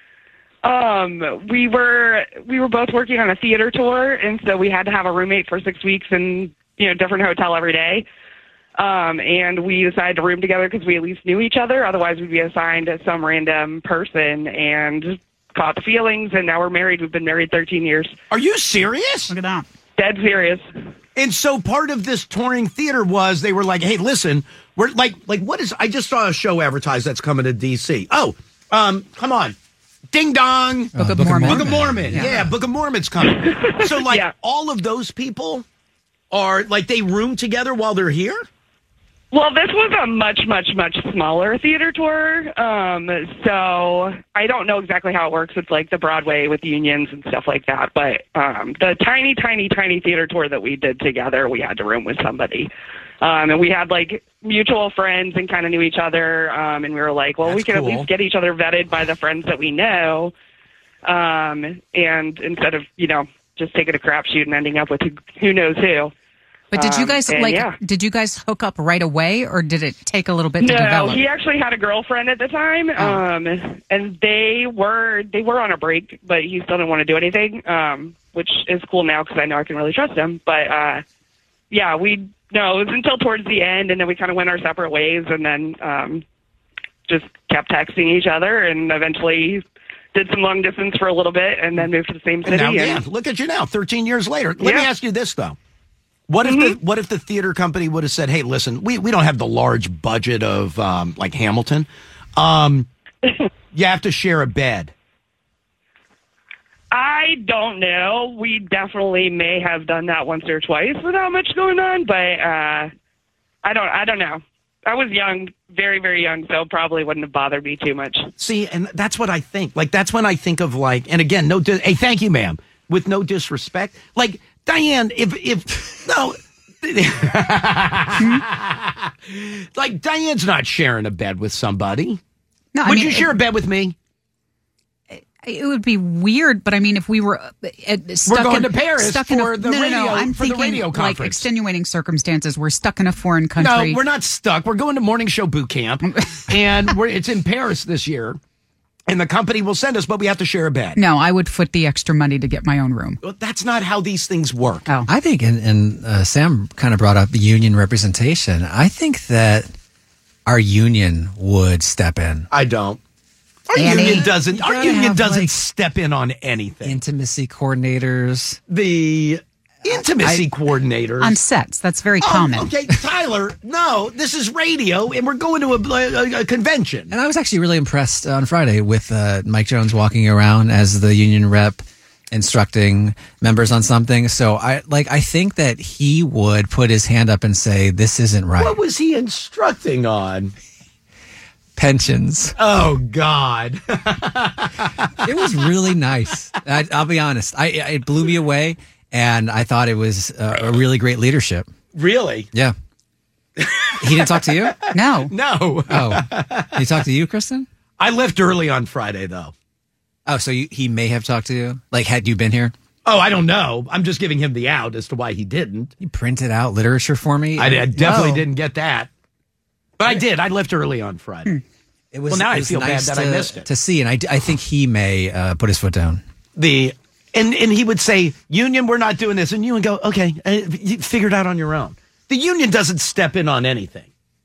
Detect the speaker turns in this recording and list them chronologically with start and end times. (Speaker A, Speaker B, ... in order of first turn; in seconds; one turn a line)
Speaker A: 0.6-8.0
Speaker A: 8.8-18.1
Speaker B: 18.3-19.3
Speaker C: 19.3-19.6
Speaker A: 20.0-20.6
Speaker B: 21.1-29.6
Speaker B: 30.1-35.6
Speaker D: 30.9-32.5
Speaker C: 31.0-32.4
Speaker A: 33.3-34.3
Speaker B: 36.3-38.4
Speaker A: 39.3-52.7
Speaker A: 53.2-60.3
Speaker B: 57.4-58.1
Speaker A: 61.0-66.1
Speaker C: 66.7-71.2
Speaker A: 66.7-67.8
Speaker A: 70.6-81.0
Speaker A: 81.7-86.2
Speaker A: 87.1-93.0
Speaker B: 92.4-95.5
Speaker A: 94.6-94.9
Speaker B: 96.3-102.9
Speaker A: 96.4-96.8
Speaker B: 103.7-104.9
Speaker A: 106.9-112.9
Speaker A: 113.6-118.3
Speaker B: 118.4-132.2
Speaker C: 128.2-128.4
Speaker C: 132.7-133.3
Speaker B: 132.8-133.9
Speaker C: 135.1-144.0
Speaker B: 138.2-141.4
Speaker B: 143.6-148.4
Speaker C: 146.1-146.9
Speaker B: 149.1-151.0
Speaker C: 150.9-153.2
Speaker B: 153.2-154.9
Speaker D: 155.1-159.7
Speaker D: 160.4-162.5
Speaker B: 162.5-163.0
Speaker B: 163.7-167.0
Speaker C: 163.8-164.3
Speaker D: 163.8-165.5
Speaker D: 166.8-168.6
Speaker B: 168.7-171.3
Speaker D: 169.9-170.4
Speaker C: 171.2-172.7
Speaker B: 172.2-177.1
Speaker D: 177.1-188.8
Speaker B: 188.6-190.5
Speaker D: 191.8-192.5
Speaker B: 192.6-195.1
Speaker D: 195.2-201.7
Speaker B: 201.9-202.5
Speaker B: 203.6-206.8
Speaker D: 204.0-204.8
Speaker C: 204.9-205.3
Speaker D: 205.9-207.7
Speaker B: 208.0-209.5
Speaker D: 210.3-212.7
Speaker B: 213.1-215.9
Speaker D: 216.0-218.2
Speaker B: 217.6-219.1
Speaker C: 218.0-218.4
Speaker B: 220.0-221.5
Speaker D: 222.1-226.2
Speaker B: 222.3-223.7
Speaker B: 226.6-234.1